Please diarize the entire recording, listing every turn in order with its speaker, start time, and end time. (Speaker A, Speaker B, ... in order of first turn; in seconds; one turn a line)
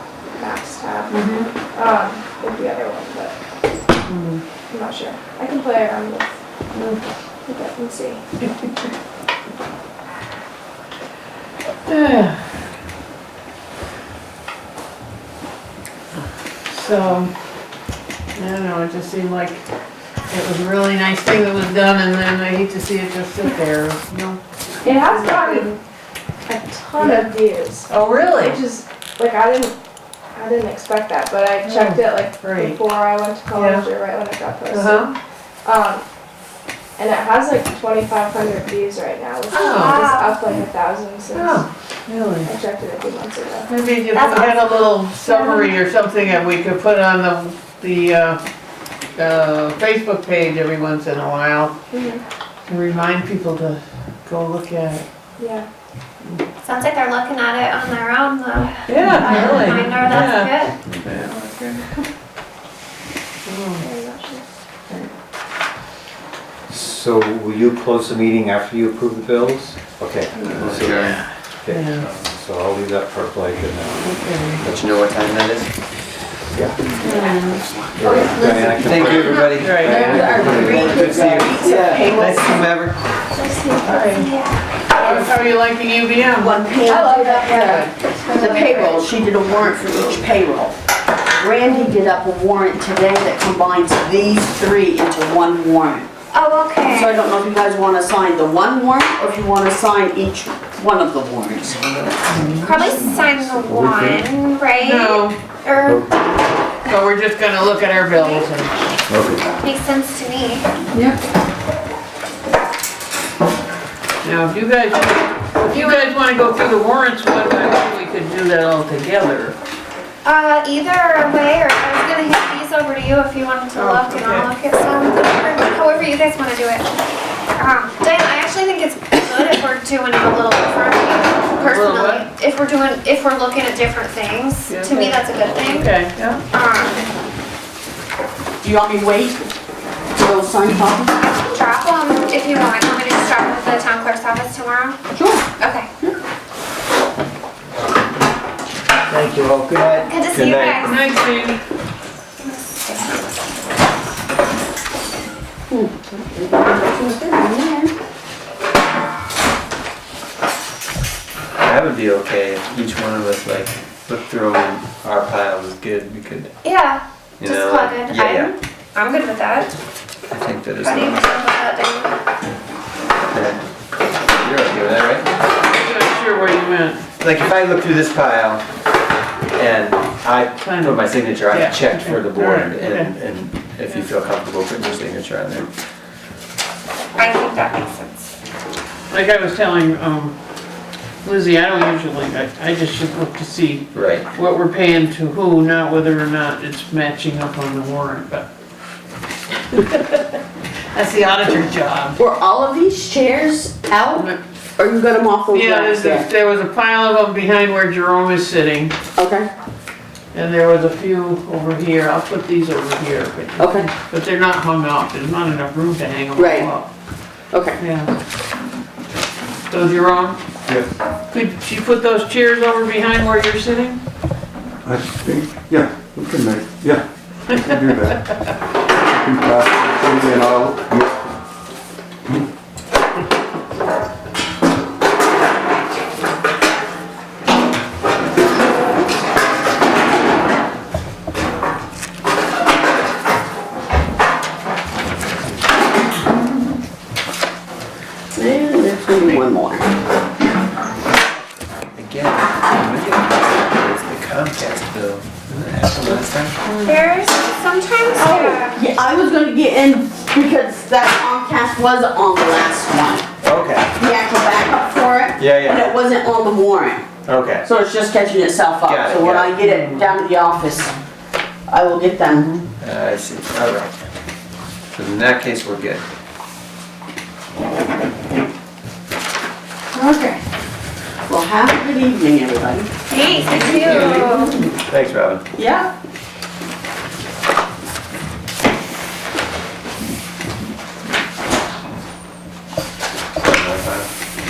Speaker A: 0.3-3.4
Speaker B: 1.1-1.5
Speaker B: 4.1-4.4
Speaker A: 4.7-6.3
Speaker B: 6.8-7.0
Speaker A: 7.5-8.2
Speaker B: 11.9-12.4
Speaker B: 16.7-17.3
Speaker B: 18.4-19.6
Speaker B: 20.3-25.7
Speaker A: 24.8-25.8
Speaker A: 26.5-29.8
Speaker B: 27.0-27.3
Speaker B: 27.9-28.6
Speaker A: 30.4-35.1
Speaker B: 31.6-32.8
Speaker B: 33.5-33.9
Speaker B: 34.7-35.1
Speaker A: 35.6-36.0
Speaker A: 37.0-41.7
Speaker B: 39.5-40.1
Speaker C: 39.5-40.4
Speaker B: 41.3-42.5
Speaker A: 42.4-43.7
Speaker B: 43.7-48.4
Speaker C: 44.1-45.7
Speaker B: 49.2-51.8
Speaker A: 51.9-52.2
Speaker B: 52.7-55.1
Speaker A: 55.4-55.7
Speaker C: 56.6-60.8
Speaker B: 58.9-62.0
Speaker B: 63.5-63.8
Speaker A: 63.8-64.5
Speaker D: 66.7-74.8
Speaker E: 70.5-71.2
Speaker B: 70.8-72.1
Speaker B: 74.0-74.6
Speaker E: 74.6-75.7
Speaker D: 76.5-76.8
Speaker F: 77.0-82.7
Speaker B: 77.0-77.6
Speaker D: 78.0-81.5
Speaker E: 78.8-83.0
Speaker C: 79.3-79.6
Speaker B: 79.6-80.5
Speaker A: 82.1-82.5
Speaker A: 83.3-84.2
Speaker B: 83.8-84.3
Speaker C: 84.2-85.3
Speaker B: 84.9-86.6
Speaker F: 86.4-96.1
Speaker A: 86.9-89.0
Speaker C: 88.3-89.1
Speaker C: 96.3-97.2
Speaker F: 96.9-102.0
Speaker B: 102.3-102.8
Speaker C: 102.6-106.1
Speaker G: 102.8-104.3
Speaker B: 104.8-105.4
Speaker G: 105.8-106.1
Speaker B: 106.9-109.0
Speaker C: 108.2-108.5
Speaker G: 109.1-109.5
Speaker C: 109.6-110.7
Speaker B: 114.2-119.6
Speaker C: 115.7-116.2
Speaker C: 120.2-126.9
Speaker B: 123.8-124.5
Speaker C: 127.5-137.1
Speaker B: 131.6-132.3
Speaker B: 134.7-136.4
Speaker F: 138.6-139.5
Speaker F: 140.1-141.2
Speaker C: 141.2-145.0
Speaker F: 145.1-145.5
Speaker C: 145.6-145.9
Speaker E: 149.1-150.8
Speaker C: 150.1-151.1
Speaker B: 150.8-151.6
Speaker C: 152.4-153.2
Speaker F: 155.7-157.9
Speaker E: 161.6-166.5
Speaker C: 166.6-169.7
Speaker E: 167.4-168.6
Speaker E: 170.3-171.3
Speaker C: 170.8-172.1
Speaker E: 173.3-173.6
Speaker E: 174.4-175.4
Speaker B: 175.6-177.1
Speaker E: 177.2-178.6
Speaker E: 179.5-185.7
Speaker B: 180.6-183.1
Speaker C: 187.2-188.3
Speaker B: 189.1-190.3
Speaker B: 191.2-198.5
Speaker E: 193.9-194.3
Speaker B: 199.7-200.3
Speaker B: 200.9-202.2
Speaker F: 202.2-206.3
Speaker B: 204.1-204.4
Speaker B: 205.5-209.0
Speaker F: 209.2-209.5
Speaker B: 210.3-216.9
Speaker F: 213.6-213.9
Speaker F: 216.4-216.7
Speaker F: 217.5-217.8
Speaker B: 217.8-218.1
Speaker B: 219.7-220.4
Speaker B: 221.3-224.0
Speaker G: 224.8-231.2
Speaker F: 248.3-249.9
Speaker E: 251.9-256.6
Speaker F: 256.6-257.0
Speaker C: 256.8-258.9
Speaker F: 258.2-263.3
Speaker E: 263.4-263.9
Speaker F: 264.0-270.9
Speaker E: 265.4-265.9
Speaker E: 267.2-267.7
Speaker E: 268.9-269.6
Speaker B: 269.6-270.2
Speaker F: 271.7-272.5
Speaker B: 272.3-272.7
Speaker E: 272.8-274.0
Speaker E: 274.9-276.0
Speaker F: 279.9-280.4
Speaker F: 281.3-284.7
Speaker C: 283.1-284.6
Speaker E: 283.8-285.4
Speaker F: 285.6-285.9
Speaker E: 293.4-294.1